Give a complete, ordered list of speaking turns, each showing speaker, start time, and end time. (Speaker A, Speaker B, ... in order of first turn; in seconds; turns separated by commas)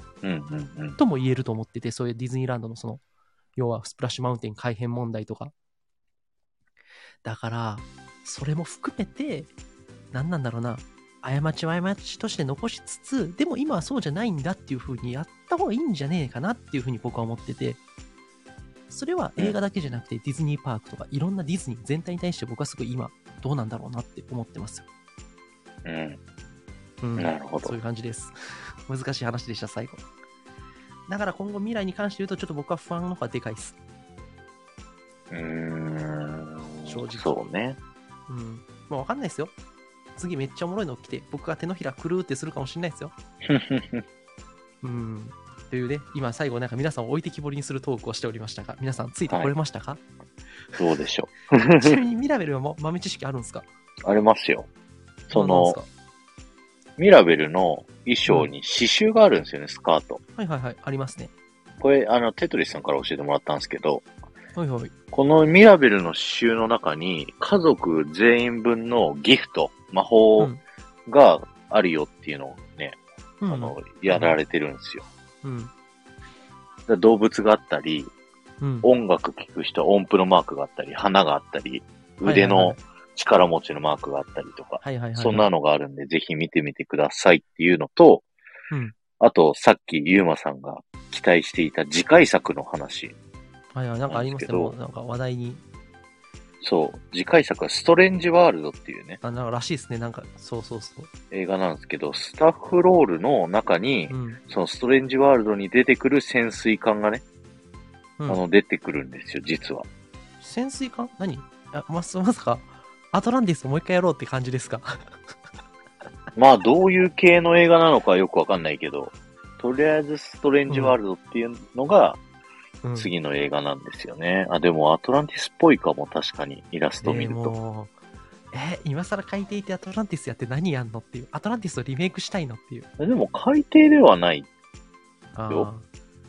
Speaker A: 0.2-1.0, Speaker B: 1.0-3.0, Speaker B: 3.6-5.5, Speaker B: 7.2-9.5, Speaker B: 10.1-17.8, Speaker B: 18.9-24.9, Speaker A: 25.9-26.2, Speaker B: 27.0-28.4, Speaker A: 27.2-27.8, Speaker B: 28.9-30.1, Speaker B: 31.1-33.8, Speaker A: 35.3-37.8, Speaker B: 36.9-37.3, Speaker B: 38.3-39.5, Speaker B: 40.2-43.1, Speaker A: 43.5-44.0, Speaker B: 44.8-50.0, Speaker A: 50.8-52.0, Speaker B: 51.8-53.6, Speaker A: 54.1-54.7, Speaker A: 55.3-55.8, Speaker B: 55.3-55.9, Speaker A: 57.0-60.2, Speaker B: 60.4-61.3, Speaker A: 61.8-64.0, Speaker B: 64.5-64.9, Speaker A: 65.1-70.5, Speaker A: 71.1-75.1, Speaker B: 73.4-74.4, Speaker B: 75.4-75.7, Speaker A: 76.9-78.1, Speaker B: 78.6-78.9, Speaker A: 78.8-88.2, Speaker B: 82.2-82.8, Speaker B: 84.8-85.5, Speaker A: 89.2-93.2, Speaker B: 93.7-95.6, Speaker A: 94.1-94.7, Speaker A: 96.6-99.2, Speaker B: 99.2-101.1, Speaker A: 101.3-107.2, Speaker B: 104.1-104.4, Speaker A: 108.3-109.9, Speaker B: 110.4-114.9, Speaker A: 116.4-122.2, Speaker B: 120.7-121.0, Speaker B: 122.8-123.1, Speaker A: 123.0-127.5, Speaker B: 127.0-127.9, Speaker B: 128.5-132.9, Speaker A: 133.0-134.5, Speaker B: 135.4-135.9